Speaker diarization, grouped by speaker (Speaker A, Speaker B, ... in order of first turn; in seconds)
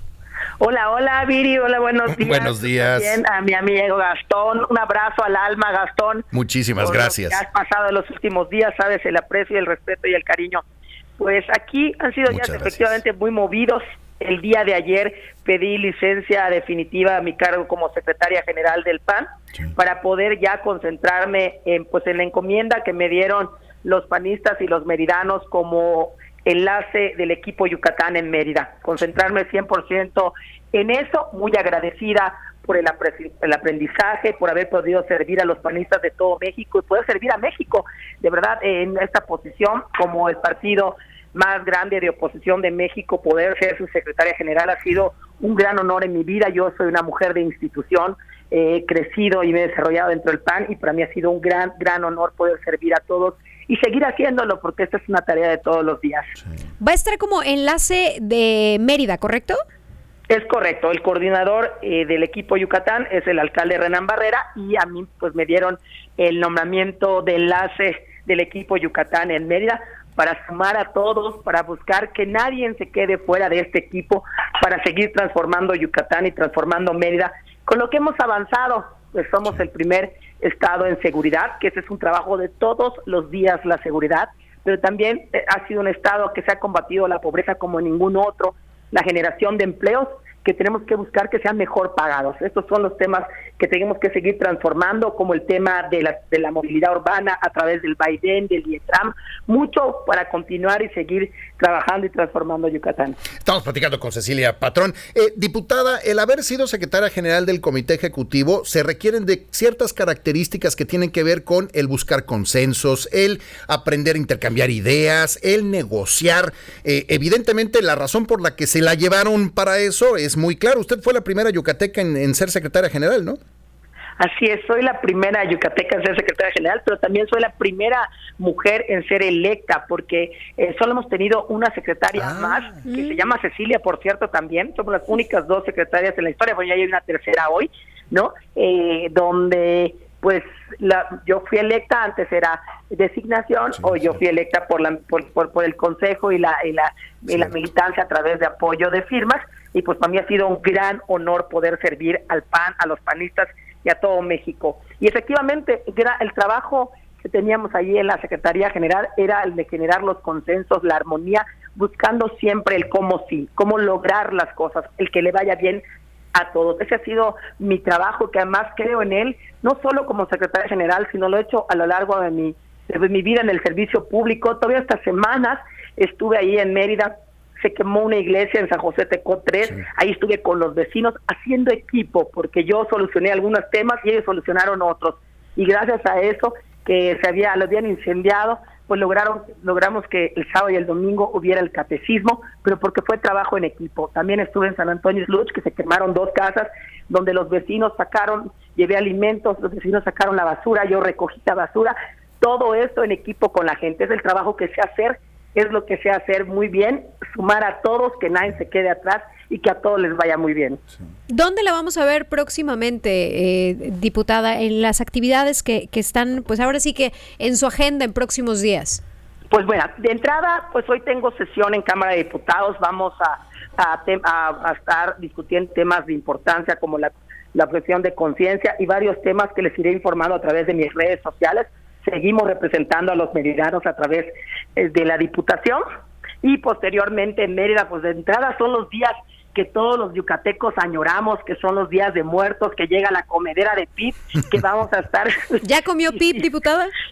Speaker A: 0.6-10.6, 11.2-56.3, 60.3-103.2, 124.2-165.8, 166.3-210.8, 219.5-235.8, 236.4-245.6
Speaker B: 2.1-3.2, 6.3-7.4, 12.3-12.8, 103.4-123.4
Speaker C: 56.8-59.6, 211.3-219.0, 245.6-246.9